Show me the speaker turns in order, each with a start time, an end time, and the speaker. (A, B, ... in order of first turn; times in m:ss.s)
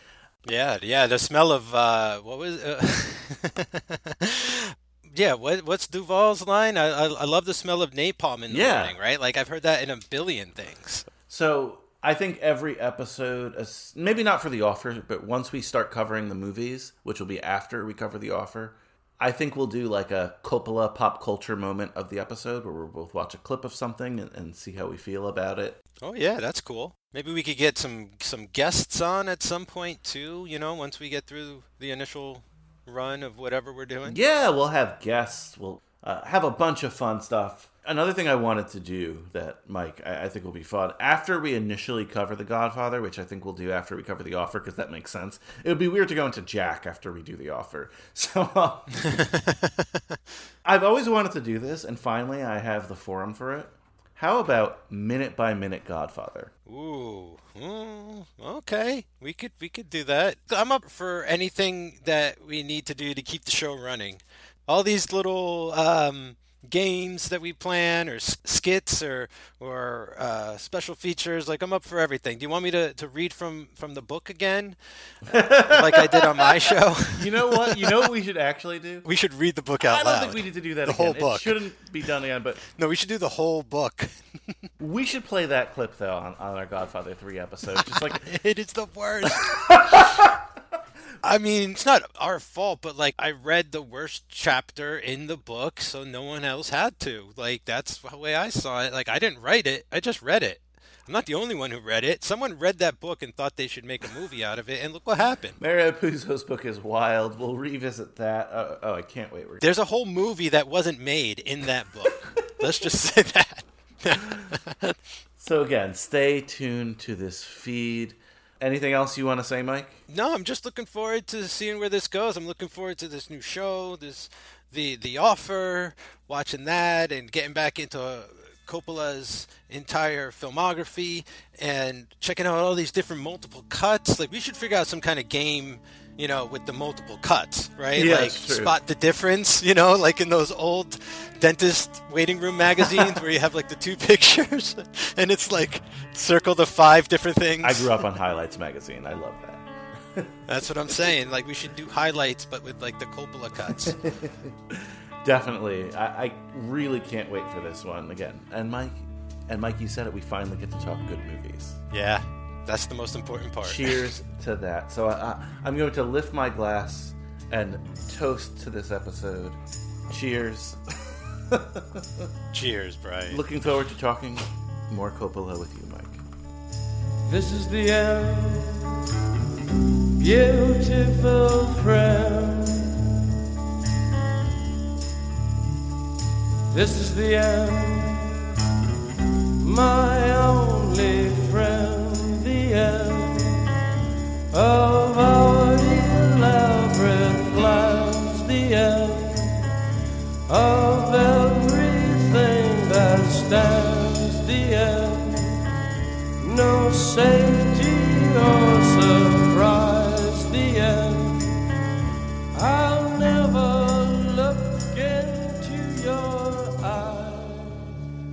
0:00.4-0:11.1 A
0:08.5-0:09.0 B
0:11.3-0:25.8 B
0:26.0-0:34.2 A
0:34.1-0:49.2 B
0:49.1-0:50.2 A
0:50.6-0:56.5 B
0:56.7-1:18.1 A
1:15.3-1:16.6 B
1:17.1-1:19.1 B
1:19.0-1:21.6 A
1:19.8-1:22.6 B
1:22.6-1:24.6 A
1:24.8-1:28.3 B
1:27.8-1:30.3 A
1:29.2-1:30.4 B
1:31.2-1:45.6 A
1:45.6-1:49.7 B
1:49.6-1:55.0 A
1:55.4-2:00.0 B
2:00.1-2:28.0 A
2:17.9-2:18.8 B
2:27.6-2:29.6 B
2:30.5-2:34.0 A
2:34.0-2:41.8 B
2:41.9-2:44.1 A
2:43.6-2:49.6 B
2:50.1-2:50.8 B
2:51.5-2:52.3 B
2:52.5-2:53.4 A
2:53.3-2:56.2 B
2:57.3-2:58.9 C
3:00.2-3:03.0 C
3:06.7-3:08.3 C
3:09.6-3:13.7 C
3:14.5-3:19.7 C
3:20.5-3:25.6 C
3:26.4-3:31.6 C
3:32.5-3:37.9 C